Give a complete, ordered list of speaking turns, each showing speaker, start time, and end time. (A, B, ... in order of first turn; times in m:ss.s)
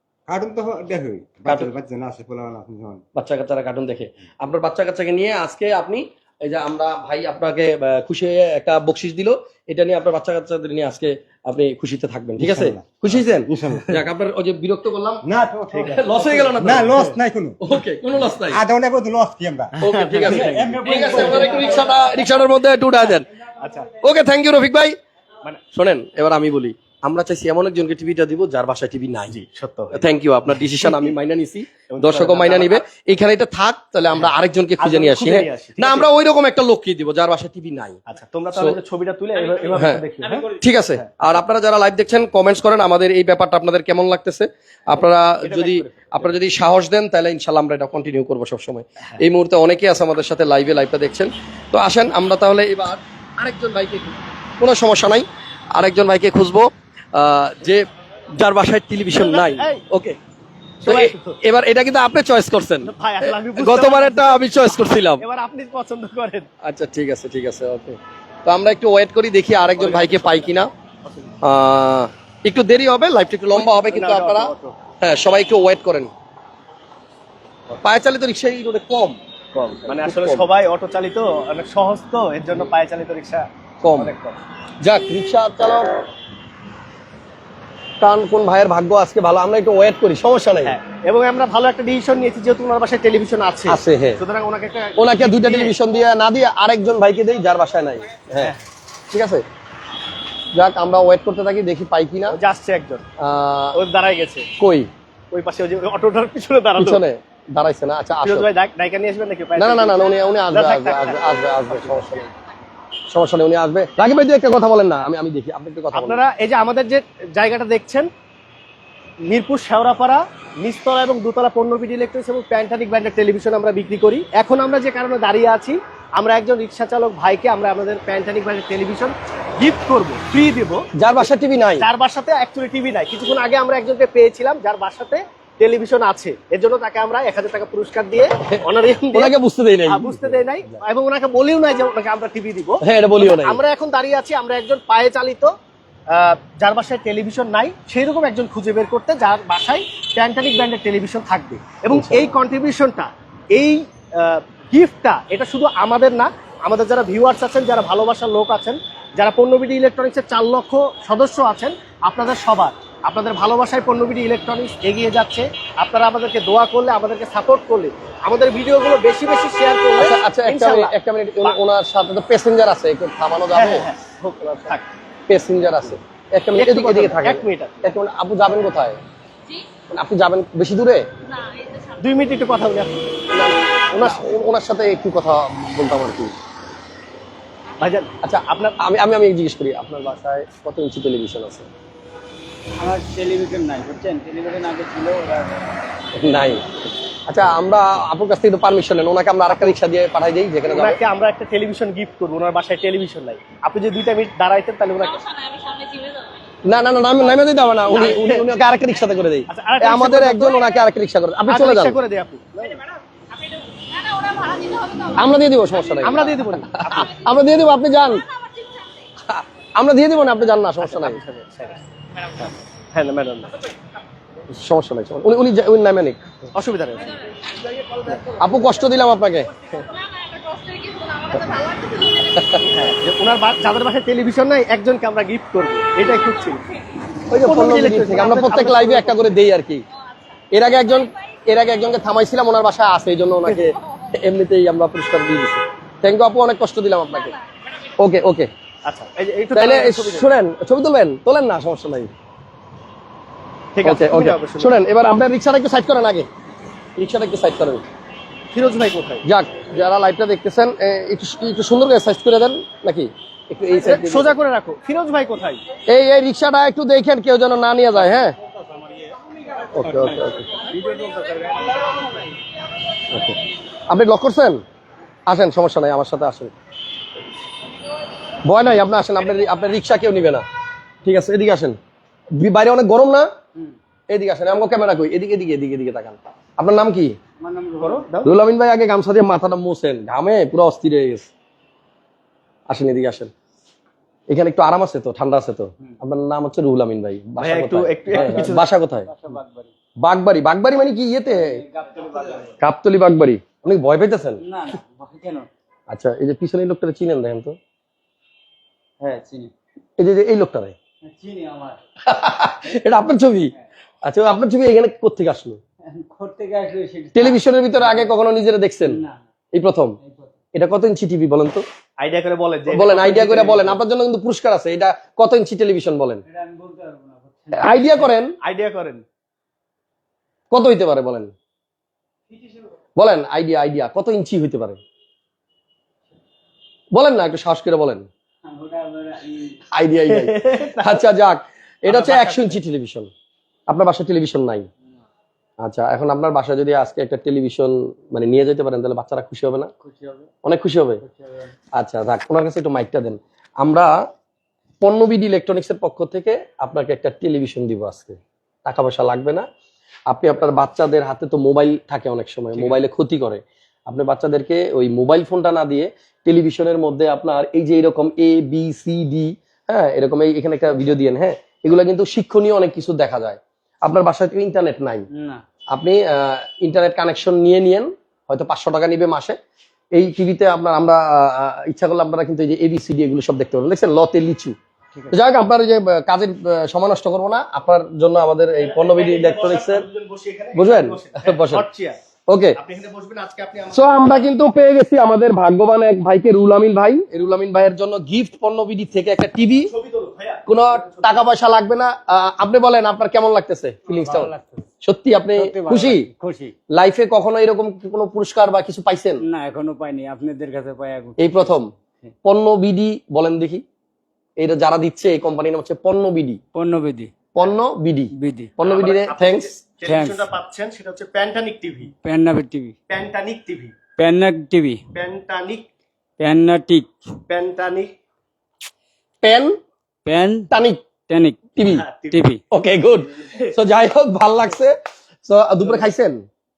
0:00.3-0:03.0 A
0:01.5-0:01.7 B
0:03.1-0:15.2 B
0:12.4-0:14.0 A
0:15.2-0:17.6 A
0:15.7-0:17.2 C
0:15.9-0:18.6 B
0:18.3-0:22.1 A
0:19.8-0:21.8 C
0:19.8-0:23.3 B
0:23.6-0:23.9 C
0:24.0-0:25.0 B
0:25.7-0:29.4 B
0:29.3-0:30.0 C
0:29.9-0:38.0 B
0:30.8-0:31.1 C
0:31.9-0:32.8 C
0:34.8-0:36.1 C
0:38.1-0:41.1 C
0:39.7-1:00.2 B
0:45.4-0:46.3 C
0:59.1-0:59.8 C
1:00.8-1:01.4 C
1:00.8-1:05.2 B
1:02.8-1:04.4 C
1:05.2-1:06.5 C
1:06.6-1:10.7 B
1:09.8-1:11.3 C
1:11.4-1:16.1 B
1:13.5-1:14.8 C
1:17.8-1:19.2 B
1:19.5-1:24.4 C
1:20.0-1:20.4 B
1:23.8-1:24.1 B
1:24.8-1:26.0 B
1:28.0-1:30.8 B
1:30.6-1:35.7 C
1:33.7-1:34.2 B
1:35.0-1:38.5 B
1:38.3-1:38.6 C
1:39.1-1:39.4 B
1:40.5-1:42.4 B
1:42.3-1:43.0 C
1:43.2-1:43.8 B
1:43.7-1:44.5 C
1:44.6-1:44.9 B
1:45.3-1:47.0 C
1:46.8-1:48.5 B
1:48.2-1:52.0 C
1:49.6-1:52.3 B
1:53.1-1:56.2 B
1:55.9-1:58.1 C
1:59.2-2:11.2 C
2:10.9-2:11.9 B
2:11.8-2:19.3 C
2:18.5-2:20.8 B
2:19.9-2:25.5 C
2:22.8-2:23.6 B
2:26.1-2:51.6 C
2:31.9-2:32.3 B
2:50.0-2:53.9 B
2:53.5-2:54.9 C
2:55.3-2:59.0 B
2:56.6-2:57.9 C
2:59.9-3:01.1 B
3:01.2-3:02.5 D
3:02.0-3:04.3 C
3:03.3-3:06.4 B
3:07.8-3:08.8 C
3:08.2-3:11.7 B
3:12.8-3:15.6 E
3:16.1-3:16.6 B
3:17.3-3:21.0 B
3:20.7-3:25.2 C
3:25.0-3:26.5 D
3:26.6-3:32.0 B
3:27.9-3:28.4 C
3:28.3-3:28.9 D
3:29.5-3:30.6 C
3:31.5-3:32.8 C
3:32.6-3:39.1 D
3:35.2-3:38.2 B
3:36.0-3:37.1 C
3:39.2-3:41.2 B
3:40.8-3:41.8 C
3:42.4-3:43.5 C
3:44.5-3:46.2 B
3:46.5-3:47.2 C
3:47.0-3:47.4 D
3:48.2-3:49.5 B
3:49.6-3:52.8 D
3:52.4-3:52.6 B
3:52.6-3:56.6 C
3:56.0-3:57.0 D
3:57.3-3:59.8 B
3:57.4-3:59.3 C
3:59.9-4:01.3 D
4:00.5-4:07.4 B
4:07.1-4:07.4 D
4:08.0-4:08.5 B
4:08.8-4:10.3 C
4:09.5-4:12.1 B
4:13.7-4:14.7 C
4:13.8-4:16.3 B
4:17.0-4:17.8 B
4:18.5-4:19.2 C
4:19.2-4:24.3 B
4:23.8-4:25.6 C
4:25.9-4:28.4 B
4:29.7-4:30.6 B
4:30.6-4:31.8 A
4:33.1-4:34.6 B
4:35.3-4:36.5 B
4:38.4-4:40.4 B
4:41.0-4:41.8 B
4:42.3-4:43.3 B
4:44.1-4:47.2 B
4:47.4-4:48.1 E
4:47.8-4:48.3 C
4:48.2-4:51.3 B
4:52.7-4:53.3 B
4:54.3-4:59.1 B
4:57.4-4:58.7 C
4:58.2-4:58.5 E
4:59.0-4:59.7 E
5:00.0-5:01.6 B
5:01.3-5:02.6 E
5:02.6-5:04.4 B
5:04.4-5:05.5 E
5:05.9-5:07.6 B
5:09.0-5:09.5 E
5:10.0-5:10.8 B
5:11.0-5:11.8 E
5:12.0-5:13.5 B
5:14.0-5:15.6 B
5:15.8-5:18.1 E
5:17.1-5:19.0 B
5:18.8-5:19.2 E
5:19.5-5:20.0 B
5:20.0-5:20.4 E
5:20.5-5:21.6 B
5:22.0-5:23.8 C
5:22.7-5:26.2 B
5:26.2-5:28.1 E
5:27.5-5:28.3 B
5:28.4-5:29.0 C
5:30.5-5:31.3 B
5:32.3-5:32.6 E
5:33.0-5:34.8 B
5:36.9-5:38.1 B
5:38.4-5:39.6 E
5:39.7-5:43.1 B
5:40.1-5:41.0 C
5:41.9-5:42.6 C
5:43.7-5:44.7 B
5:45.6-5:49.7 B
5:49.8-5:50.3 E
5:50.4-5:51.0 B
5:51.0-5:51.5 E
5:51.7-5:53.9 B
5:54.8-5:59.5 B
6:00.1-6:15.0 B
6:15.1-6:15.4 E
6:15.7-6:19.4 B
6:19.9-6:24.6 B
6:25.1-6:29.8 B
6:28.6-6:32.0 C
6:30.5-6:31.6 B
6:32.3-6:32.6 B
6:32.5-6:34.3 C
6:33.7-6:39.7 B
6:39.7-6:41.2 C
6:40.5-6:46.1 B
6:43.9-6:44.7 E
6:45.4-6:46.5 E
6:46.7-6:49.2 B
6:49.2-6:52.1 E
6:51.2-6:51.7 B
6:52.2-6:53.6 B
6:54.4-6:56.4 B
6:56.5-6:57.1 E
6:57.3-6:59.5 B
6:58.1-6:58.5 E
6:58.6-7:01.9 C
6:59.8-7:00.3 E
7:02.0-7:02.8 E
7:02.9-7:03.7 C
7:04.0-7:04.8 E
7:04.9-7:05.7 C
7:06.2-7:06.9 E
7:07.3-7:07.9 C
7:09.2-7:09.6 B
7:10.0-7:10.5 E
7:10.5-7:10.8 B
7:11.0-7:11.5 E
7:11.6-7:11.8 B
7:11.6-7:12.2 C
7:12.1-7:12.4 E
7:12.5-7:16.2 B
7:13.2-7:13.5 C